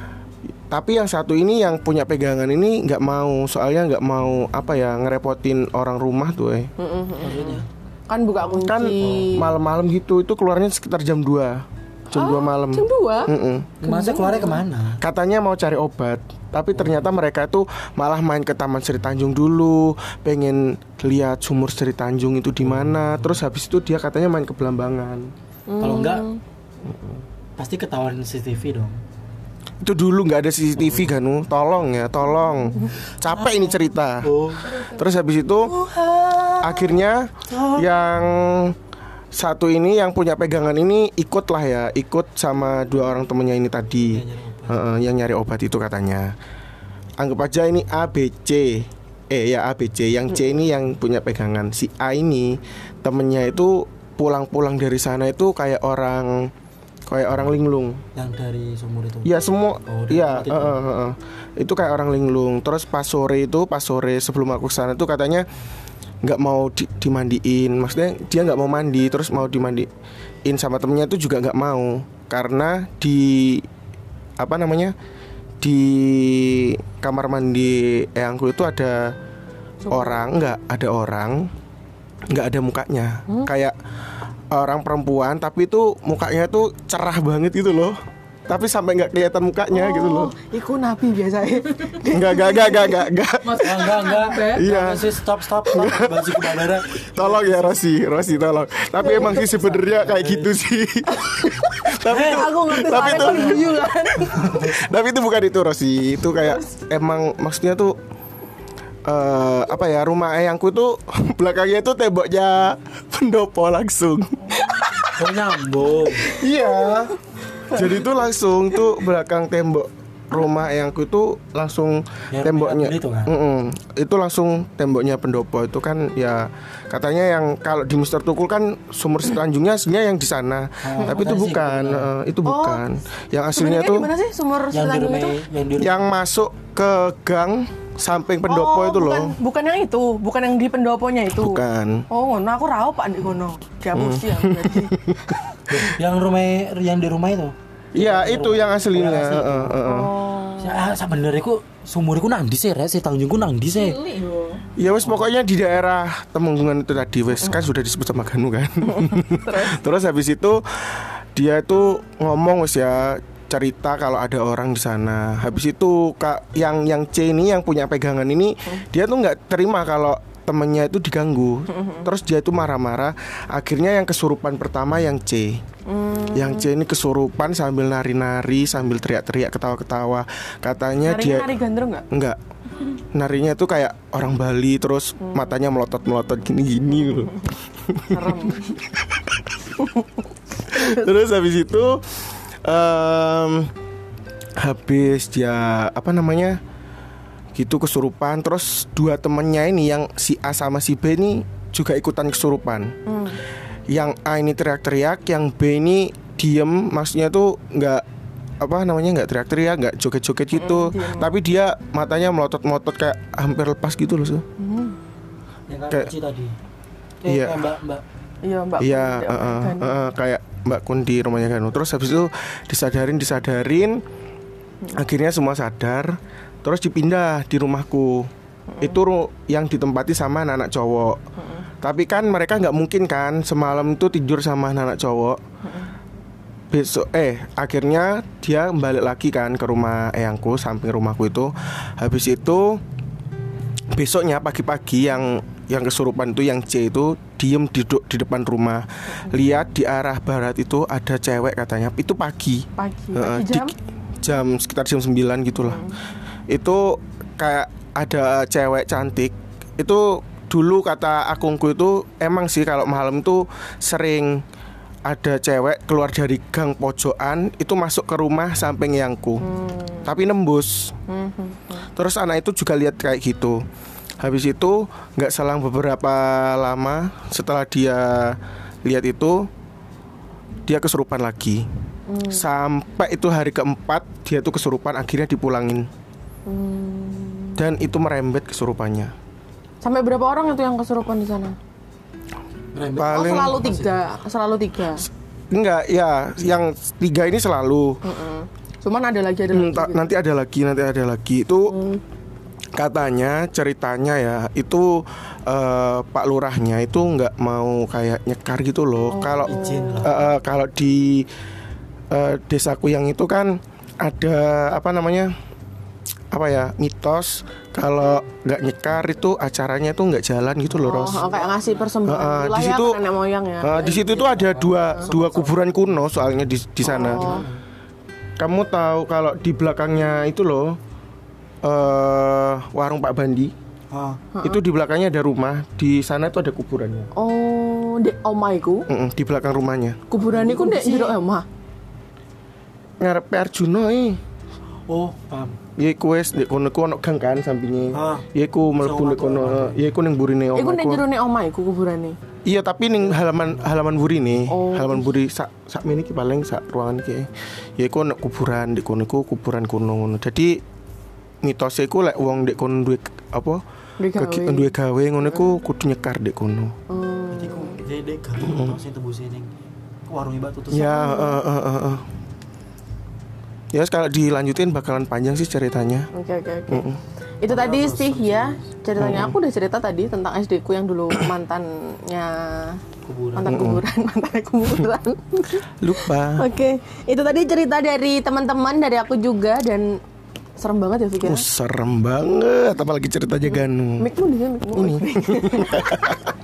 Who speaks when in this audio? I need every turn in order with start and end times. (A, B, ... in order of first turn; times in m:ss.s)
0:00.7-0:06.7 A
0:06.8-0:09.5 B
0:07.2-0:07.7 C
0:08.6-0:13.7 A
0:09.0-0:09.4 C
0:12.1-0:13.3 B
0:13.8-0:15.0 C
0:13.8-0:14.6 B
0:15.0-0:25.3 A
0:16.7-0:17.1 C
0:22.6-0:23.4 C
0:25.7-0:26.4 B
0:25.8-0:26.3 C
0:26.8-0:27.2 A
0:27.6-0:29.0 C
0:29.8-0:34.3 A
0:30.8-0:31.1 C
0:33.2-0:34.8 C
0:34.8-0:35.7 A
0:35.6-0:36.9 C
0:36.6-0:38.7 A
0:37.5-0:38.0 C
0:39.3-0:46.3 A
0:44.1-0:44.8 C
0:47.2-0:56.5 A
0:57.1-0:58.0 A
0:58.1-0:59.3 C
0:59.2-1:05.5 A
0:59.9-1:00.8 C
1:06.2-1:09.9 A
1:10.4-1:13.6 A
1:14.4-1:14.9 A
1:15.6-1:19.2 A
1:19.8-1:20.2 B
1:19.9-1:21.5 A
1:22.3-1:23.7 A
1:24.5-1:30.3 A
1:29.7-1:34.6 B
1:32.1-1:35.1 A
1:33.5-1:37.8 C
1:35.8-1:43.8 A
1:39.0-1:39.4 B
1:39.0-1:40.5 C
1:41.2-1:44.6 B
1:42.1-1:44.9 C
1:44.5-1:48.0 A
1:49.0-1:55.0 A
1:55.2-1:56.3 C
1:56.2-1:57.1 A
1:56.3-1:57.0 B
1:57.7-2:14.1 A
2:02.3-2:03.3 C
2:10.8-2:12.1 C
2:12.4-2:12.8 B
2:13.5-2:15.4 B
2:14.7-2:16.2 C
2:15.8-2:19.3 A
2:18.5-2:24.9 B
2:21.3-2:22.0 A
2:23.9-2:25.4 A
2:25.7-2:29.8 C
2:27.9-2:30.1 A
2:29.8-2:30.8 B
2:30.6-2:34.0 C
2:33.7-2:34.6 B
2:34.8-2:55.6 A
2:34.8-2:35.2 C
2:38.9-2:39.8 B
2:51.7-2:52.1 B
2:55.8-2:56.6 B
2:56.3-3:01.6 A
3:01.0-3:02.1 B
3:02.1-3:02.4 A
3:03.1-3:09.5 A
3:08.1-3:08.7 B
3:10.7-3:13.7 A
3:14.6-3:16.6 A
3:17.5-3:23.0 A
3:23.0-3:23.4 B
3:23.9-3:28.0 A
3:28.6-3:34.4 A
3:30.5-3:31.3 B
3:34.6-3:35.0 B
3:35.7-3:36.5 C
3:37.2-3:38.0 C
3:37.2-3:37.6 A
3:38.4-3:40.0 B
3:38.8-3:44.0 A
3:44.9-3:48.3 A
3:48.7-3:49.0 B
3:48.8-3:51.2 A
3:51.4-3:51.6 B
3:51.8-3:55.4 A
3:56.7-4:02.8 A
4:03.9-4:15.8 A
4:12.8-4:13.7 B
4:15.6-4:15.9 B
4:16.5-4:24.4 A
4:25.0-4:29.4 A
4:29.4-4:30.1 B
4:30.0-4:30.9 A
4:31.1-4:31.8 B
4:31.9-4:33.6 A
4:34.2-4:39.5 A
4:40.6-4:41.6 A
4:42.1-4:42.4 B
4:42.3-4:45.9 A
4:46.5-4:47.6 B
4:47.6-4:49.1 A
4:49.8-4:51.6 B
4:52.7-4:54.0 C
4:53.0-4:53.6 A
4:53.0-4:55.0 B
4:55.5-4:58.0 A
4:58.0-5:00.1 B
4:59.5-5:01.7 A
5:01.7-5:02.0 B
5:02.7-5:11.3 A
5:09.1-5:10.1 B
5:09.4-5:10.3 C
5:12.1-5:15.3 A
5:16.3-5:21.2 A
5:20.8-5:25.1 B
5:20.8-5:21.9 C
5:22.0-5:23.0 A
5:23.6-5:27.3 A
5:24.2-5:25.5 C
5:26.8-5:27.4 B
5:26.9-5:27.6 C
5:28.4-5:30.8 A
5:31.6-5:33.5 A
5:33.9-5:34.2 C
5:34.4-5:37.1 A
5:37.1-5:38.8 B
5:38.9-5:40.0 A
5:40.1-5:41.4 B
5:40.2-5:41.1 C
5:43.0-5:44.2 A
5:44.9-5:45.6 C
5:45.8-5:51.0 A
5:47.9-5:48.2 C
5:48.8-5:49.8 C
5:50.6-5:52.2 B
5:52.4-6:00.6 A
5:53.0-5:53.9 C
5:54.5-5:55.1 B
6:01.4-6:03.6 A
6:04.0-6:04.7 B
6:04.2-6:06.7 A
6:06.9-6:07.8 B
6:07.3-6:09.5 C
6:08.4-6:08.8 A
6:10.0-6:11.0 C
6:10.7-6:12.0 A
6:10.8-6:11.4 B
6:13.7-6:16.1 A
6:16.1-6:16.8 B
6:16.7-6:17.0 A
6:17.4-6:22.8 B
6:17.5-6:18.7 C
6:19.0-6:19.3 A
6:23.0-6:23.5 C
6:23.3-6:25.6 B
6:23.4-6:23.8 A
6:25.8-6:26.5 A
6:26.4-6:30.0 B
6:30.6-6:31.4 B
6:31.2-6:34.1 A
6:33.5-6:36.2 B
6:34.7-6:36.3 A